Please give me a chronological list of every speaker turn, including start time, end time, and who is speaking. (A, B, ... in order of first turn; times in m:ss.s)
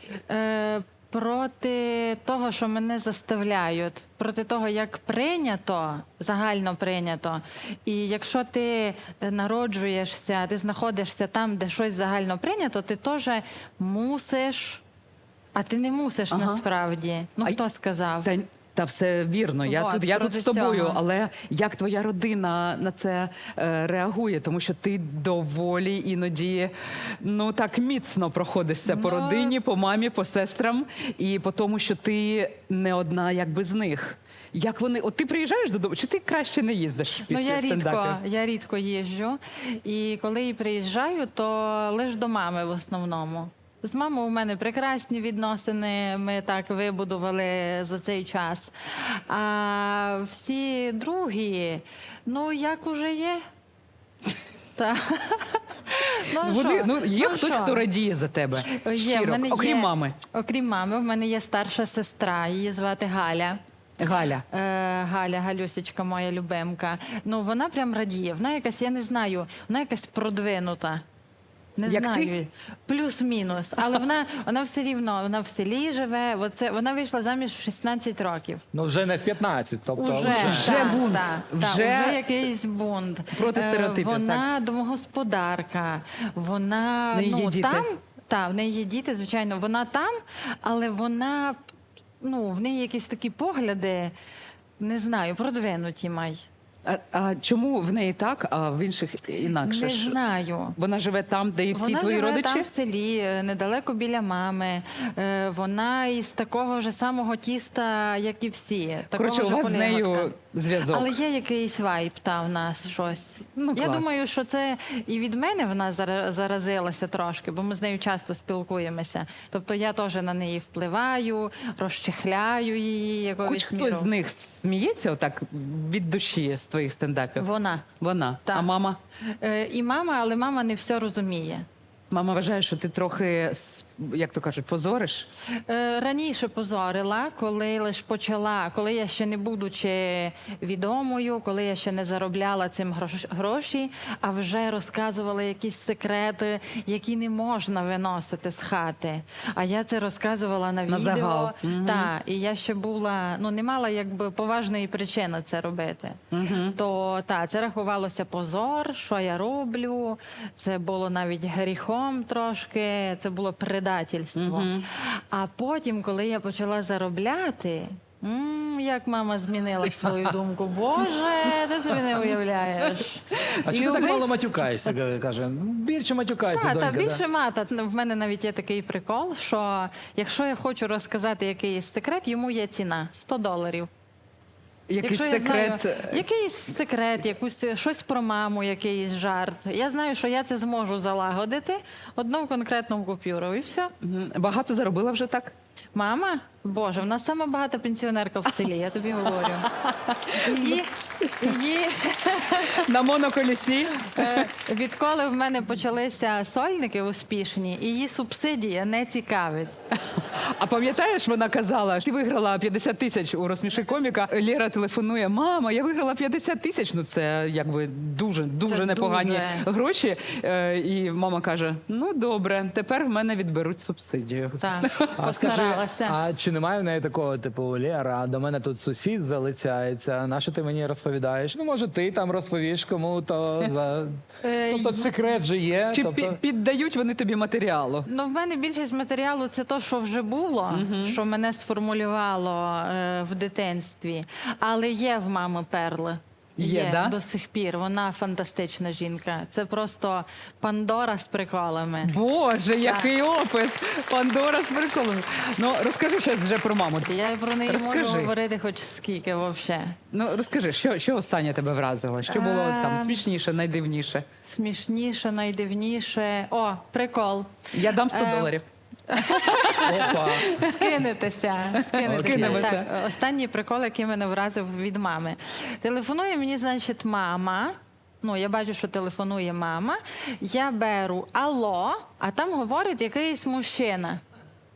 0:00.3-0:14.8 A
0:15.6-0:18.3 A
0:16.3-0:16.6 B
0:18.2-0:38.2 B
0:19.6-0:21.0 A
0:28.8-0:29.6 A
0:37.3-0:53.4 A
0:54.8-0:57.9 A
0:56.1-1:00.2 B
0:58.7-1:03.6 A
1:04.0-1:04.4 B
1:04.5-1:11.0 A
1:11.8-1:18.6 A
1:11.9-1:12.3 B
1:18.7-1:20.9 C
1:20.0-1:31.6 A
1:20.2-1:22.2 B
1:23.3-1:24.4 B
1:27.1-1:27.9 B
1:32.2-1:34.2 A
1:34.8-1:36.4 A
1:36.9-1:40.2 B
1:39.6-1:40.8 A
1:40.8-1:42.7 B
1:41.7-1:50.3 A
1:49.2-1:51.1 B
1:50.9-2:04.1 A
1:53.6-1:54.1 B
2:03.4-2:07.5 B
2:07.4-2:07.9 A
2:08.0-2:09.0 B
2:09.4-2:11.7 A
2:12.1-2:15.3 B
2:15.7-2:36.2 A
2:30.9-2:32.1 B
2:36.3-2:36.8 B
2:36.8-2:54.3 A
2:44.4-2:44.9 B
2:53.6-2:57.2 C
2:56.4-3:03.9 A
3:04.9-3:06.2 B
3:05.0-3:13.9 A
3:14.0-3:15.5 B
3:15.9-3:19.7 A
3:19.8-3:21.5 B
3:20.3-3:22.9 A
3:22.7-3:24.5 B
3:24.1-3:29.8 A
3:30.1-3:45.2 B
3:38.7-3:39.6 A
3:44.6-3:46.2 A
3:45.2-3:56.4 C
3:54.4-3:55.1 A
3:55.9-3:58.1 B
3:58.1-4:12.1 A
4:00.7-4:01.2 B
4:06.6-4:07.2 B
4:12.0-4:17.1 B
4:12.8-4:13.1 A
4:17.0-4:20.0 A
4:17.7-4:18.3 B
4:20.1-4:24.2 B
4:22.3-4:23.2 A
4:24.5-4:27.5 A
4:27.7-4:28.6 B
4:28.1-4:28.6 A
4:29.1-4:44.2 A
4:29.2-4:30.8 B
4:29.8-4:30.6 C
4:31.8-4:32.9 B
4:32.0-4:32.7 C